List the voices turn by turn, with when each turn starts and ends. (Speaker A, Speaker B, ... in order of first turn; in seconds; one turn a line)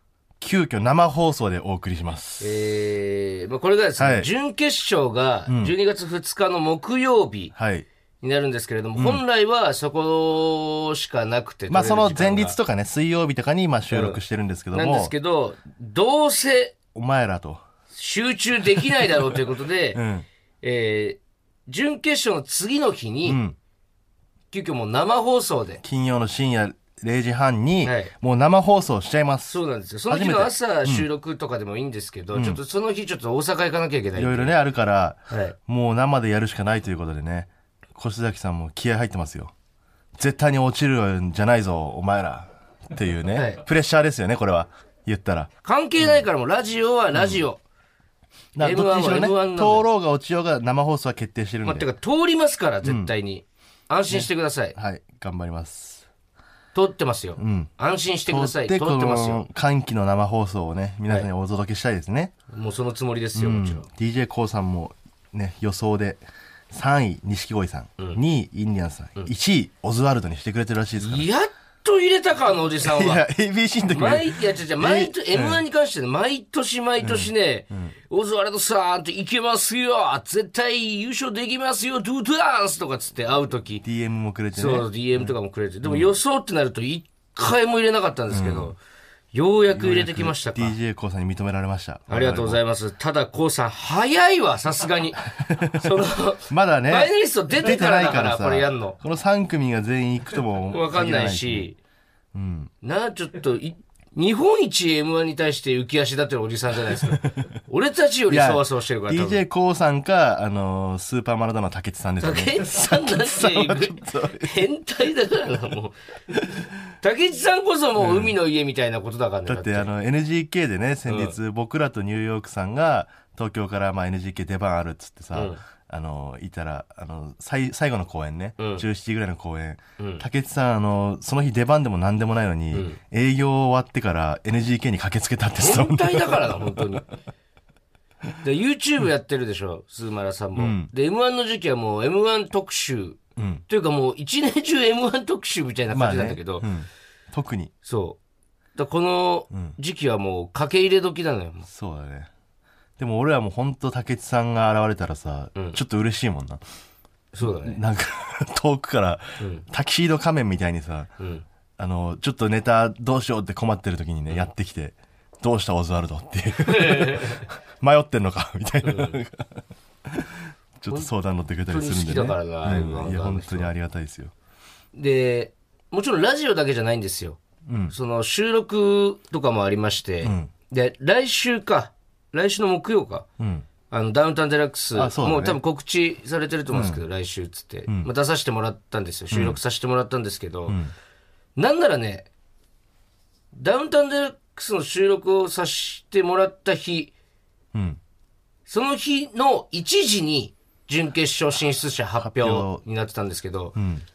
Speaker A: 0.4-2.5
Speaker B: 2.4-7.5
Speaker A: 4.0-4.3
Speaker A: 5.5-5.7
Speaker A: 7.5-7.9
Speaker B: 8.2-12.6
Speaker A: 8.9-9.2
Speaker A: 11.7-15.1
Speaker B: 13.9-14.2
Speaker B: 14.7-16.8
Speaker A: 16.9-17.6
Speaker B: 17.9-20.0
Speaker A: 19.9-20.2
Speaker B: 20.6-23.4
Speaker A: 23.2-23.6
Speaker B: 24.5-25.8
Speaker A: 25.8-31.1
Speaker B: 27.8-28.1
Speaker B: 29.5-34.6
Speaker A: 32.3-32.6
Speaker A: 34.1-39.5
Speaker B: 35.3-35.5
Speaker A: 40.2-46.2
Speaker B: 43.3-43.6
Speaker B: 45.6-47.6
Speaker A: 47.1-47.4
Speaker A: 48.5-51.9
Speaker B: 48.6-49.9
Speaker B: 51.6-54.8
Speaker A: 52.8-53.1
Speaker A: 54.1-56.0
Speaker B: 56.7-59.4
Speaker A: 57.4-57.7
Speaker A: 58.3-62.3
Speaker B: 62.5-63.9
Speaker A: 63.3-71.3
Speaker B: 71.0-73.2
Speaker A: 72.8-75.6
Speaker B: 73.9-83.8
Speaker A: 77.0-77.9
Speaker A: 83.8-86.1
Speaker B: 84.5-88.8
Speaker A: 88.3-88.7
Speaker B: 89.3-90.8
Speaker A: 89.7-92.6
Speaker B: 92.1-99.0
Speaker A: 95.3-95.9
Speaker A: 96.5-101.7
Speaker B: 100.7-101.8
Speaker A: 102.3-102.7
Speaker B: 102.8-109.4
Speaker A: 107.2-107.5
Speaker A: 108.3-114.6
Speaker B: 112.2-116.0
Speaker B: 117.0-119.9
Speaker A: 118.0-118.4
Speaker A: 119.5-137.0
Speaker B: 121.1-121.3
Speaker B: 125.3-125.6
Speaker B: 128.6-128.8
Speaker B: 130.0-130.2
Speaker B: 132.7-133.0
Speaker B: 135.6-137.0
Speaker B: 138.4-146.7
Speaker A: 140.6-140.9
Speaker A: 143.4-143.6
Speaker A: 145.9-147.7
Speaker B: 147.8-148.2
Speaker B: 148.8-151.7
Speaker A: 151.7-152.3
Speaker A: 153.0-156.6
Speaker B: 157.3-157.8
Speaker A: 157.4-161.1
Speaker B: 159.4-159.6
Speaker B: 161.2-161.4
Speaker A: 161.8-174.3
Speaker B: 166.6-167.4
Speaker B: 168.8-169.2
Speaker B: 171.7-173.7
Speaker B: 174.9-183.3
Speaker A: 177.7-177.9
Speaker A: 180.2-180.5
Speaker A: 183.4-183.7
Speaker B: 183.9-190.8
Speaker A: 184.9-185.6
Speaker A: 186.7-187.0
Speaker A: 189.3-189.6
Speaker A: 190.7-190.9
Speaker B: 191.6-192.3
Speaker B: 193.5-197.1
Speaker A: 197.7-198.0
Speaker B: 198.7-203.8
Speaker A: 202.2-202.8
Speaker A: 203.8-204.0